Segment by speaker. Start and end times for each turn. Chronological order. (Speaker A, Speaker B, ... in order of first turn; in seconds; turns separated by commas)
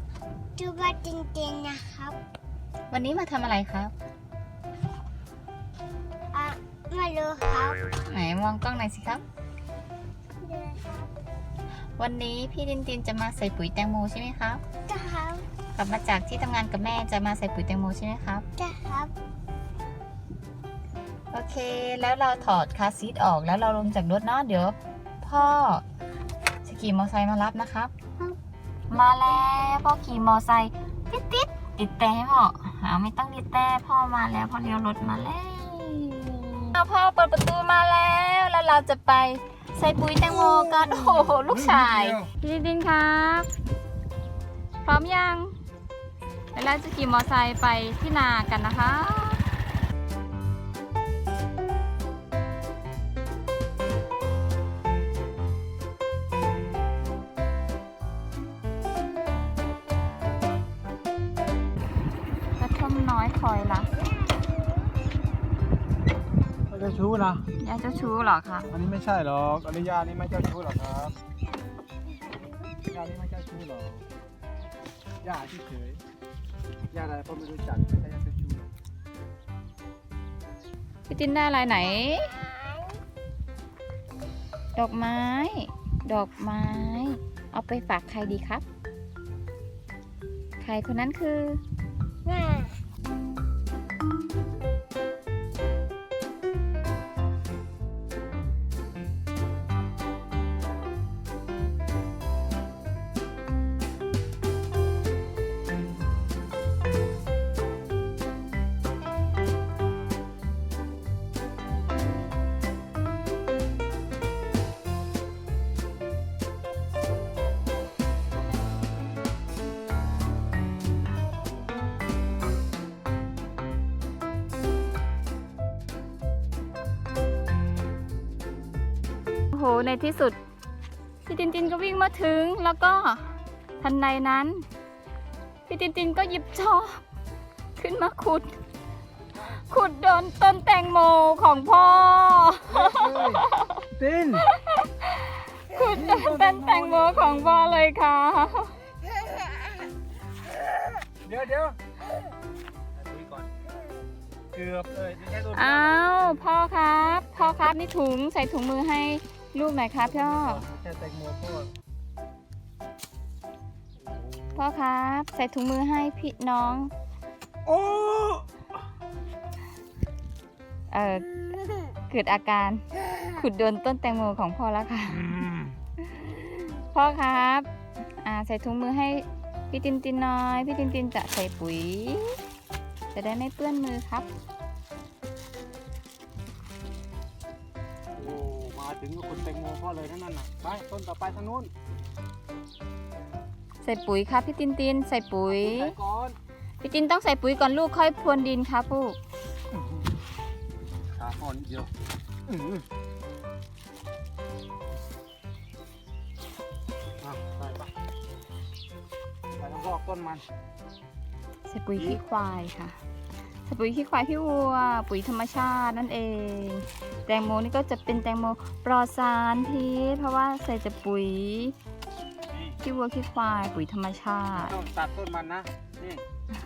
Speaker A: 0.6-2.1, Speaker B: 2.9-3.9, Speaker A: 6.3-8.0, Speaker B: 8.1-9.2, Speaker A: 10.4-11.1, Speaker B: 12.0-14.6, Speaker A: 14.9-15.4, Speaker B: 15.7-18.4, Speaker A: 18.6-19.1, Speaker B: 21.3-25.8, Speaker B: 26.6-28.3, Speaker B: 28.9-43.5, Speaker C: 40.7-42.3, Speaker B: 44.8-45.5, Speaker B: 46.5-49.5, Speaker B: 62.6-63.9, Speaker C: 66.7-67.5, Speaker B: 67.6-68.7, Speaker C: 68.7-71.2, Speaker C: 72.9-74.0, Speaker C: 75.2-76.0, Speaker C: 76.9-78.7, Speaker B: 81.1-82.4, Speaker A: 82.0-82.9, Speaker B: 84.8-88.6, Speaker B: 90.6-91.6, Speaker A: 92.2-92.7, Speaker B: 129.5-130.4, Speaker B: 131.2-133.3, Speaker B: 133.8-134.6, Speaker B: 135.7-137.0, Speaker B: 137.8-138.6, Speaker B: 139.5-143.8, Speaker C: 142.7-144.5, Speaker B: 144.4-148.7, Speaker C: 145.7-147.9, Speaker C: 151.2-151.8, Speaker C: 152.9-153.5, Speaker C: 154.5-156.0, Speaker B: 155.5-160.6, Speaker C: 160.0-161.7, Speaker C: 164.0-164.6, Speaker B: 164.5-166.9, Speaker C: 167.6-168.4, Speaker B: 170.9-171.3, Speaker B: 172.1-175.4, Speaker C: 175.1-175.7, Speaker B: 176.2-177.7, Speaker B: 178.2-182.4, Speaker B: 183.1-184.3, Speaker C: 188.2-191.7, Speaker B: 193.8-195.9, Speaker C: 195.5-196.3, Speaker B: 196.8-199.2, Speaker C: 201.1-201.9, Speaker C: 202.5-202.8, Speaker C: 207.2-207.9, Speaker C: 209.6-210.4, Speaker B: 211.7-212.9, Speaker B: 213.6-221.8, Speaker C: 222.5-222.8, Speaker B: 222.8-224.8, Speaker C: 224.5-226.2